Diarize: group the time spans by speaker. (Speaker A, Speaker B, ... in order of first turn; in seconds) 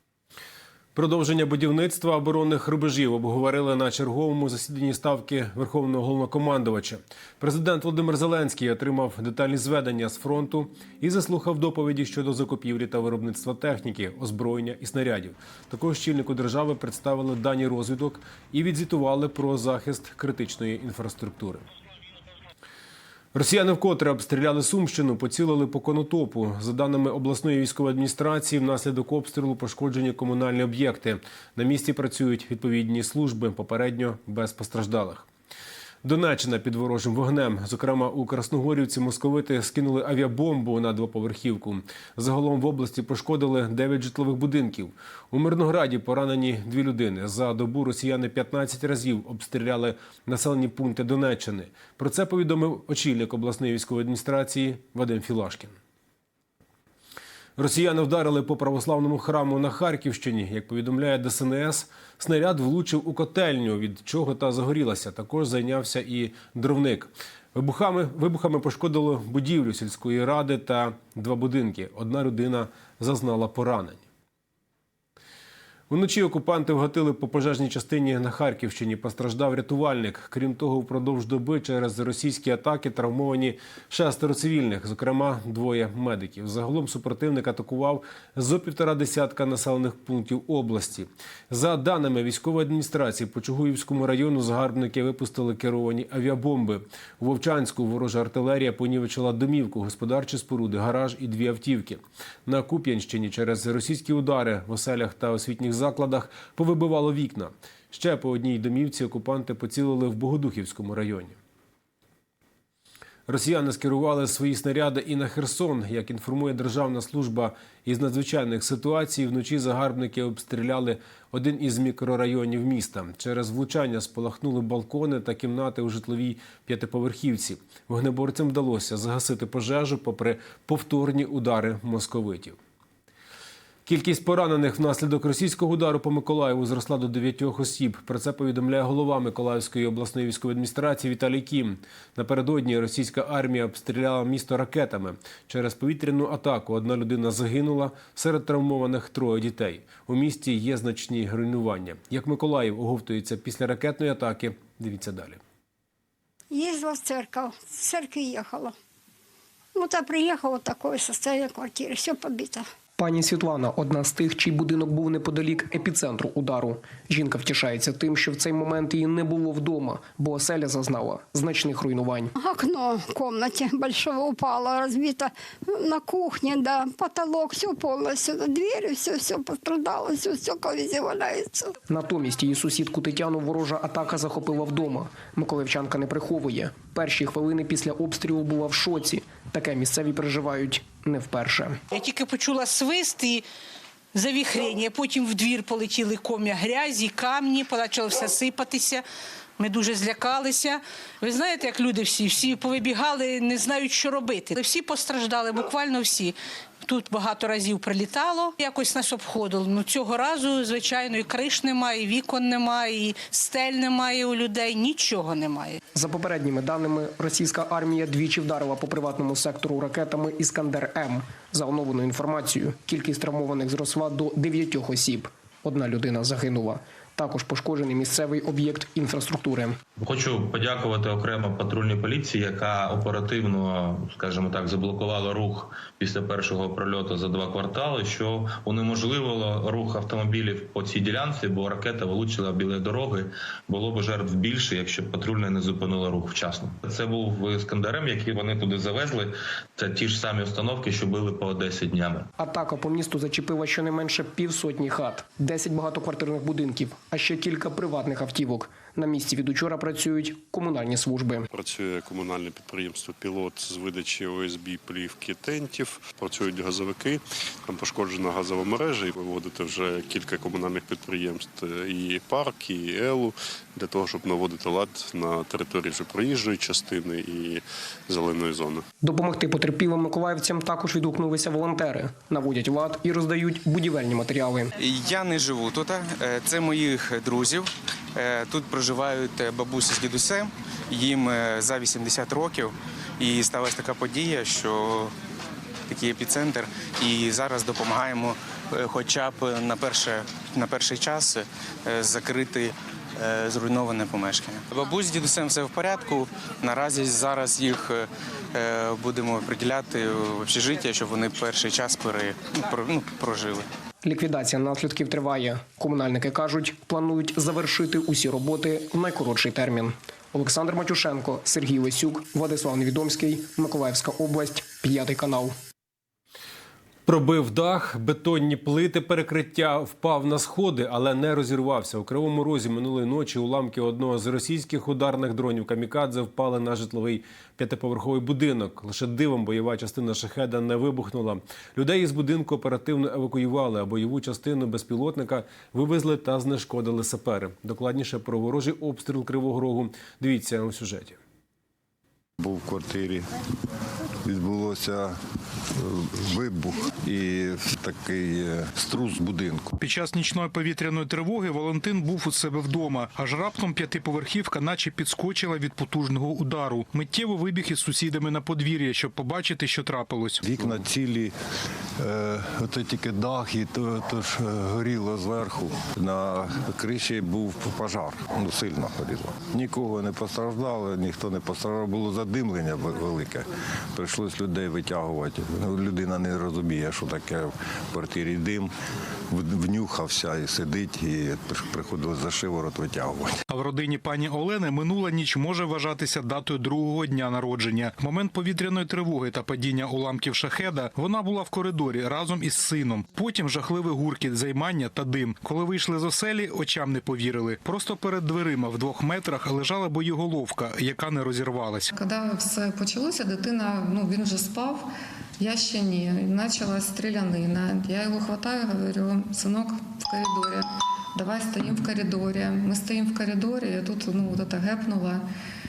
Speaker A: 0.9-21.6, 23.3-35.3, 36.0-55.8, 57.6-74.0, 75.9-111.4, 113.3-132.6, 133.9-155.4, 327.1-351.2
Speaker B: 156.5-158.8, 159.8-162.7, 172.4-181.7
Speaker C: 163.0-172.3, 181.9-191.8, 215.9-229.8, 252.4-261.5, 279.0-284.7, 314.1-325.6
Speaker D: 191.9-193.4, 194.1-199.0, 199.6-215.8
Speaker E: 230.0-252.3
Speaker F: 261.5-278.8
Speaker G: 284.8-295.1, 295.9-313.7
Speaker H: 352.4-353.3, 354.2-355.2, 355.8-359.8, 370.4-371.3, 372.0-388.7, 389.3-393.4
Speaker I: 359.8-370.4, 393.5-411.9
Speaker J: 411.9-414.9, 415.4-425.3